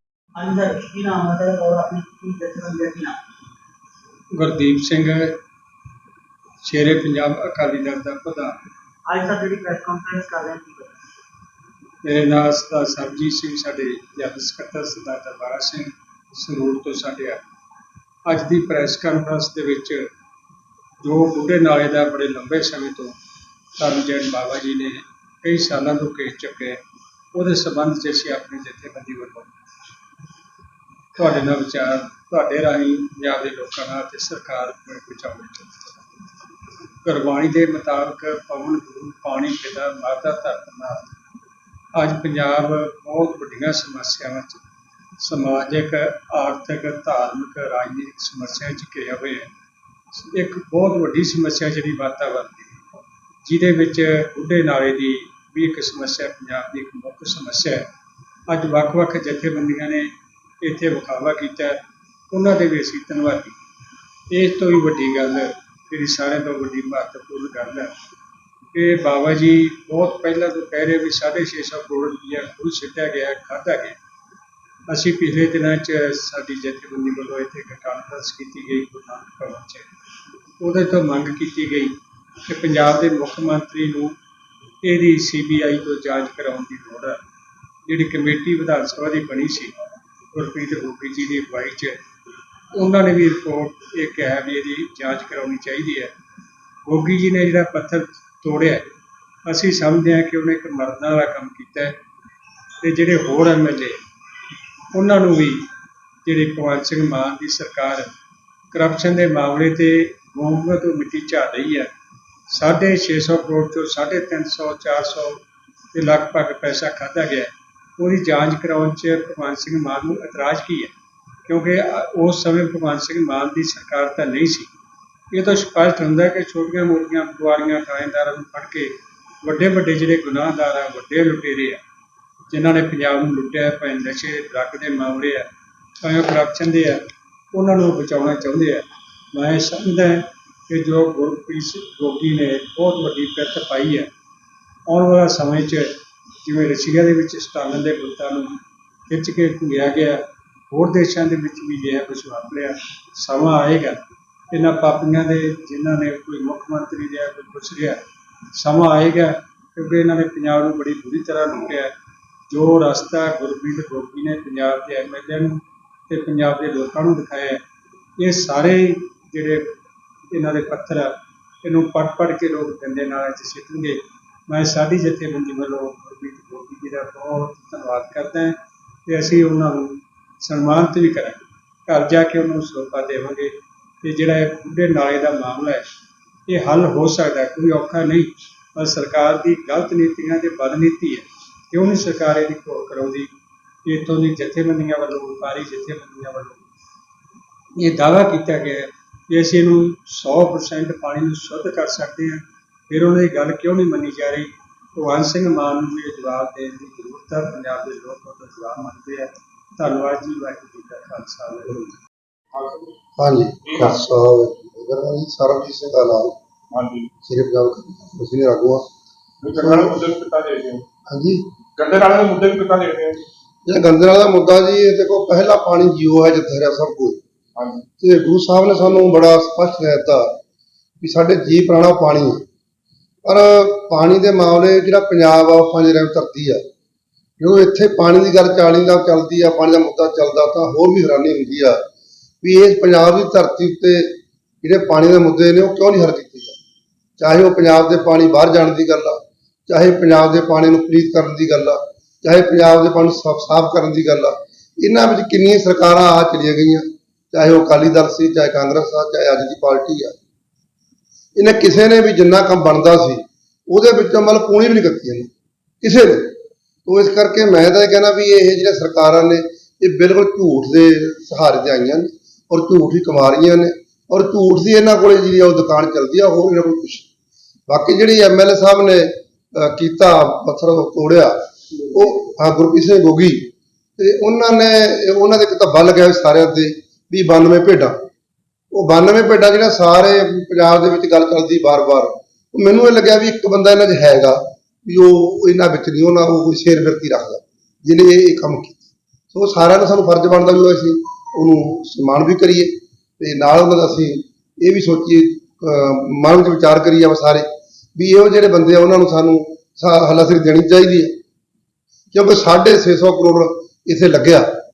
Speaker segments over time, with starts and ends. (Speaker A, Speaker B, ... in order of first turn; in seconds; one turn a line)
Speaker A: 0.3-3.2
Speaker B: 4.3-5.3
Speaker B: 6.6-8.6
Speaker A: 9.1-11.0
Speaker B: 12.0-17.4
Speaker B: 18.2-20.1
Speaker B: 21.0-23.1
Speaker B: 23.8-26.8
Speaker B: 27.3-29.5
Speaker B: 31.1-35.8
Speaker B: 37.0-41.1
Speaker B: 41.9-44.6
Speaker B: 45.2-49.5
Speaker B: 50.2-57.9
Speaker B: 58.5-60.1
Speaker B: 60.6-61.8
Speaker B: 62.3-63.6
Speaker B: 64.3-67.9
Speaker B: 68.7-74.0
Speaker B: 74.9-79.9
Speaker B: 80.6-84.2
Speaker B: 84.8-87.2
Speaker B: 87.8-89.7
Speaker B: 90.3-92.0
Speaker B: 92.7-96.1
Speaker B: 96.8-98.8
Speaker B: 99.4-102.0
Speaker B: 102.8-104.0
Speaker B: 104.9-105.6
Speaker B: 106.2-108.1
Speaker B: 108.7-111.9
Speaker B: 112.5-115.4
Speaker B: 115.9-120.9
Speaker B: 121.5-124.7
Speaker B: 125.3-131.8
Speaker B: 132.5-135.5
Speaker B: 136.0-144.1
Speaker B: 144.9-145.9
Speaker B: 146.4-158.0
Speaker B: 158.5-161.9
Speaker B: 162.5-167.6
Speaker B: 168.2-169.7
Speaker B: 170.3-185.8
Speaker B: 186.5-193.3
Speaker B: 193.8-196.7
Speaker B: 197.8-211.9
Speaker C: 212.5-212.9
Speaker D: 213.2-216.3
Speaker C: 213.6-214.0
Speaker C: 216.7-217.1
Speaker D: 217.2-218.8
Speaker C: 219.4-220.8
Speaker D: 219.6-220.0
Speaker D: 221.1-221.4
Speaker C: 221.8-223.2
Speaker D: 223.7-227.2
Speaker C: 227.6-227.8
Speaker D: 228.0-230.3
Speaker D: 231.0-232.4
Speaker D: 233.2-236.6
Speaker D: 237.4-241.8
Speaker D: 242.4-246.6
Speaker D: 247.2-260.1
Speaker D: 261.4-265.3
Speaker D: 265.8-277.1
Speaker D: 277.7-281.4
Speaker D: 281.9-288.0
Speaker D: 288.7-311.2
Speaker D: 312.1-314.5